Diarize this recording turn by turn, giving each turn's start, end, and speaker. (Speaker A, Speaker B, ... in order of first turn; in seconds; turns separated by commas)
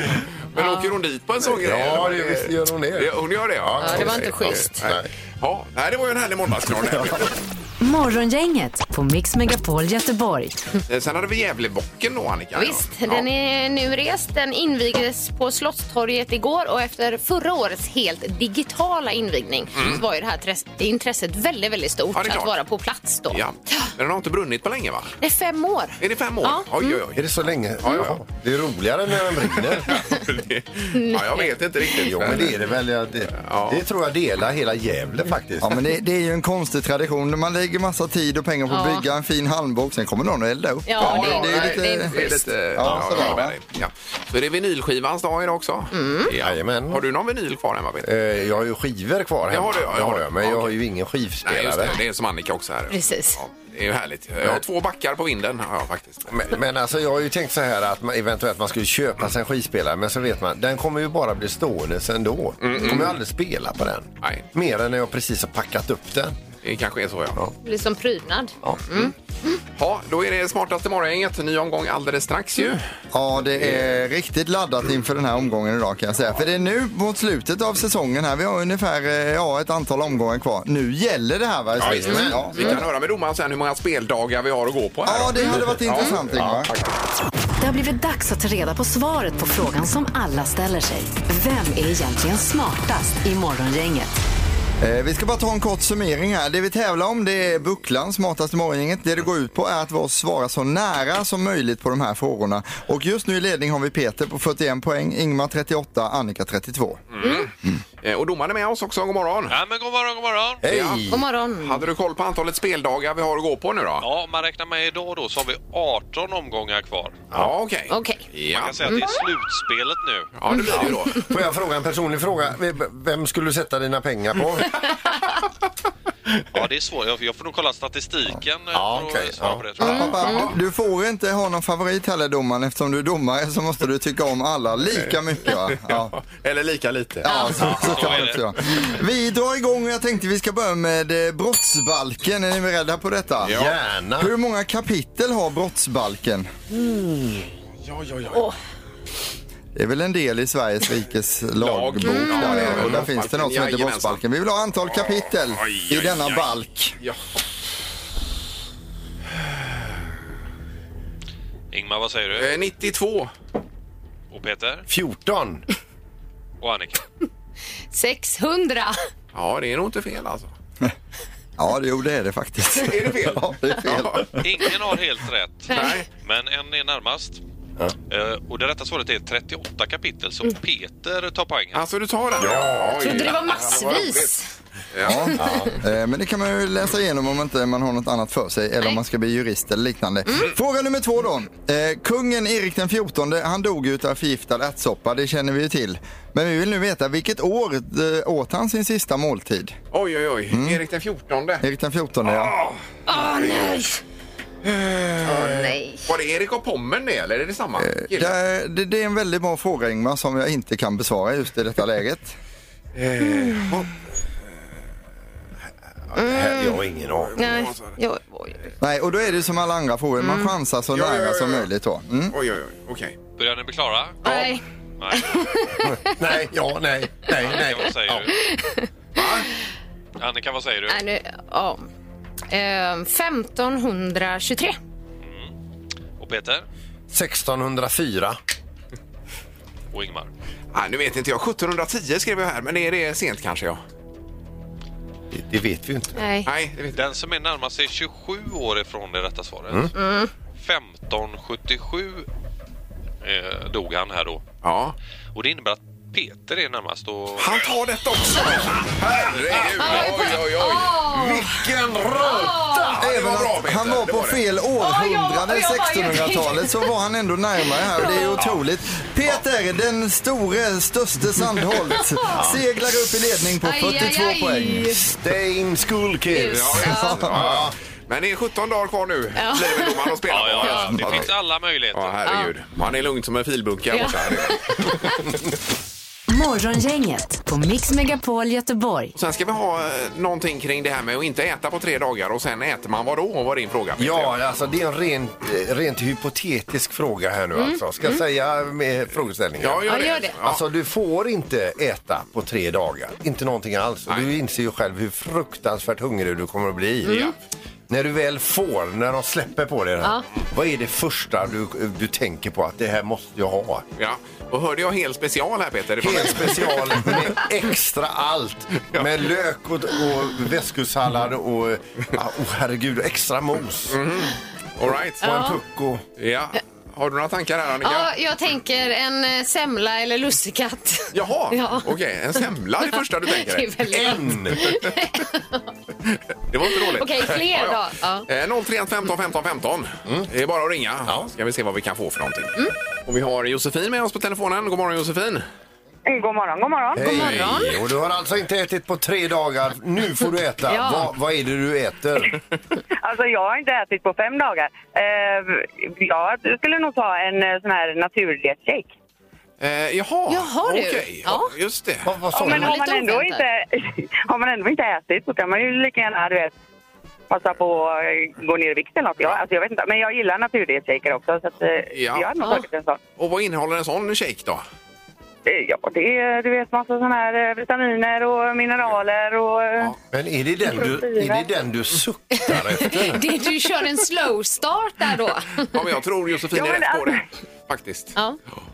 Speaker A: 0.5-7.3, Speaker B: 0.6-0.9, Speaker C: 1.5-5.1, Speaker B: 3.8-4.8, Speaker C: 6.9-7.2, Speaker D: 7.8-10.7, Speaker A: 10.9-13.3, Speaker B: 12.6-23.9, Speaker A: 19.8-20.0, Speaker A: 22.1-22.6, Speaker A: 23.3-25.2, Speaker B: 25.2-27.0, Speaker A: 26.0-27.3, Speaker C: 27.2-30.0, Speaker A: 27.8-28.2, Speaker A: 29.6-32.7, Speaker B: 30.9-32.0, Speaker C: 32.0-35.8, Speaker A: 33.4-33.8, Speaker E: 35.6-43.5, Speaker B: 38.7-39.1, Speaker B: 40.9-42.5, Speaker A: 41.0-48.1, Speaker C: 42.8-43.4, Speaker B: 45.9-46.3, Speaker C: 46.4-47.0, Speaker C: 48.0-52.0, Speaker A: 49.5-50.8, Speaker A: 51.4-56.6, Speaker B: 52.9-53.4, Speaker C: 56.3-66.4, Speaker A: 62.6-63.2, Speaker A: 64.2-64.5, Speaker A: 66.6-67.4, Speaker B: 67.6-69.6, Speaker A: 69.8-72.8, Speaker E: 73.1-82.8, Speaker C: 81.8-82.8, Speaker A: 81.8-86.8, Speaker E: 85.1-86.7, Speaker C: 86.3-86.7, Speaker D: 87.6-94.2, Speaker E: 94.8-107.0, Speaker A: 107.1-107.5, Speaker A: 108.0-109.6, Speaker F: 109.5-110.6, Speaker C: 110.6-111.2, Speaker A: 110.7-111.0, Speaker B: 111.1-111.9, Speaker A: 111.6-114.1, Speaker F: 114.0-117.2, Speaker A: 117.3-119.0, Speaker B: 117.9-118.2, Speaker F: 118.5-120.3, Speaker B: 118.8-119.2, Speaker A: 120.4-121.3, Speaker C: 120.7-124.8, Speaker F: 126.5-130.4, Speaker C: 128.7-129.7, Speaker E: 129.8-136.1, Speaker B: 129.9-130.4, Speaker A: 130.1-130.5, Speaker A: 135.1-138.2, Speaker E: 137.2-143.6, Speaker B: 137.3-137.6, Speaker F: 137.8-138.5, Speaker A: 143.4-143.8, Speaker C: 143.5-144.3, Speaker E: 144.2-146.5, Speaker A: 147.8-148.5, Speaker E: 149.8-157.0, Speaker A: 151.6-154.2, Speaker B: 152.0-152.8, Speaker A: 155.6-157.2, Speaker F: 161.7-162.6, Speaker A: 162.3-163.3, Speaker F: 164.3-164.8, Speaker C: 164.9-165.7, Speaker F: 166.6-167.0, Speaker B: 167.9-169.0, Speaker A: 169.3-170.5, Speaker E: 171.6-174.4, Speaker A: 172.7-174.4, Speaker F: 174.4-177.4, Speaker B: 175.7-176.0, Speaker A: 175.7-176.1, Speaker F: 178.1-181.9, Speaker A: 181.7-184.3, Speaker C: 182.4-183.3, Speaker B: 183.0-184.5, Speaker A: 184.9-185.4, Speaker E: 185.0-199.8, Speaker C: 185.4-185.8, Speaker A: 199.9-201.6, Speaker E: 200.5-200.8, Speaker E: 201.6-202.5, Speaker A: 202.3-202.8, Speaker B: 203.1-204.0, Speaker A: 204.6-208.3, Speaker B: 205.2-206.1, Speaker E: 207.8-212.3, Speaker A: 212.9-213.9, Speaker B: 213.3-213.7, Speaker C: 216.1-217.4, Speaker B: 216.2-216.8, Speaker A: 217.2-218.0, Speaker B: 217.4-218.6, Speaker E: 218.8-222.3, Speaker B: 220.2-220.5, Speaker A: 220.9-221.7, Speaker A: 222.3-223.2, Speaker F: 223.4-225.8, Speaker B: 224.2-224.6, Speaker B: 225.1-226.1, Speaker C: 225.9-228.3, Speaker F: 227.3-228.4, Speaker B: 228.3-228.9, Speaker A: 229.2-229.5, Speaker F: 230.2-231.0, Speaker B: 230.9-231.9, Speaker B: 232.5-234.8, Speaker F: 235.2-235.5, Speaker F: 236.2-236.7, Speaker C: 237.1-238.4, Speaker F: 239.9-240.3, Speaker A: 240.7-243.8, Speaker C: 245.3-246.2, Speaker B: 246.2-246.5, Speaker A: 246.5-247.0, Speaker F: 246.9-249.9, Speaker B: 249.9-250.3, Speaker F: 250.6-252.3, Speaker F: 253.2-254.4, Speaker A: 254.6-255.0, Speaker F: 255.3-257.6, Speaker A: 257.4-261.0, Speaker B: 259.8-261.6, Speaker C: 261.0-263.1, Speaker B: 262.2-262.9, Speaker A: 263.0-264.4, Speaker E: 263.0-275.0, Speaker B: 264.8-266.9, Speaker B: 267.9-268.4, Speaker B: 272.0-272.4, Speaker C: 272.3-272.6, Speaker B: 273.6-275.0, Speaker C: 275.0-277.7, Speaker B: 276.3-277.1, Speaker A: 276.3-281.3, Speaker E: 276.9-277.4, Speaker B: 279.4-280.1, Speaker F: 280.3-282.3, Speaker A: 281.9-285.2, Speaker B: 283.9-285.2, Speaker D: 286.3-289.1, Speaker A: 289.2-294.3, Speaker C: 294.0-299.9, Speaker B: 297.6-298.2, Speaker A: 299.6-300.6, Speaker B: 299.9-300.4, Speaker C: 300.4-307.2, Speaker B: 307.1-307.3, Speaker C: 307.9-313.9, Speaker A: 314.0-317.3, Speaker C: 316.0-324.0, Speaker A: 323.9-325.2, Speaker C: 324.9-326.1, Speaker B: 325.2-325.6, Speaker A: 326.2-328.1, Speaker B: 327.8-331.9, Speaker A: 331.1-333.7, Speaker B: 333.3-335.7, Speaker C: 333.9-334.8, Speaker A: 336.1-342.6, Speaker B: 336.7-338.3, Speaker A: 343.1-345.4, Speaker G: 346.1-347.2, Speaker C: 346.9-352.4, Speaker B: 347.0-347.8, Speaker B: 350.7-351.1, Speaker G: 353.0-358.9, Speaker A: 359.6-362.1, Speaker B: 360.3-361.5, Speaker C: 362.1-362.8, Speaker B: 362.3-363.4, Speaker G: 362.4-366.6, Speaker G: 367.3-373.0, Speaker A: 371.9-372.3, Speaker A: 373.2-374.6, Speaker G: 375.4-379.9, Speaker C: 380.1-383.2, Speaker G: 380.7-381.5, Speaker B: 382.5-385.8, Speaker A: 385.7-388.1, Speaker G: 386.5-387.2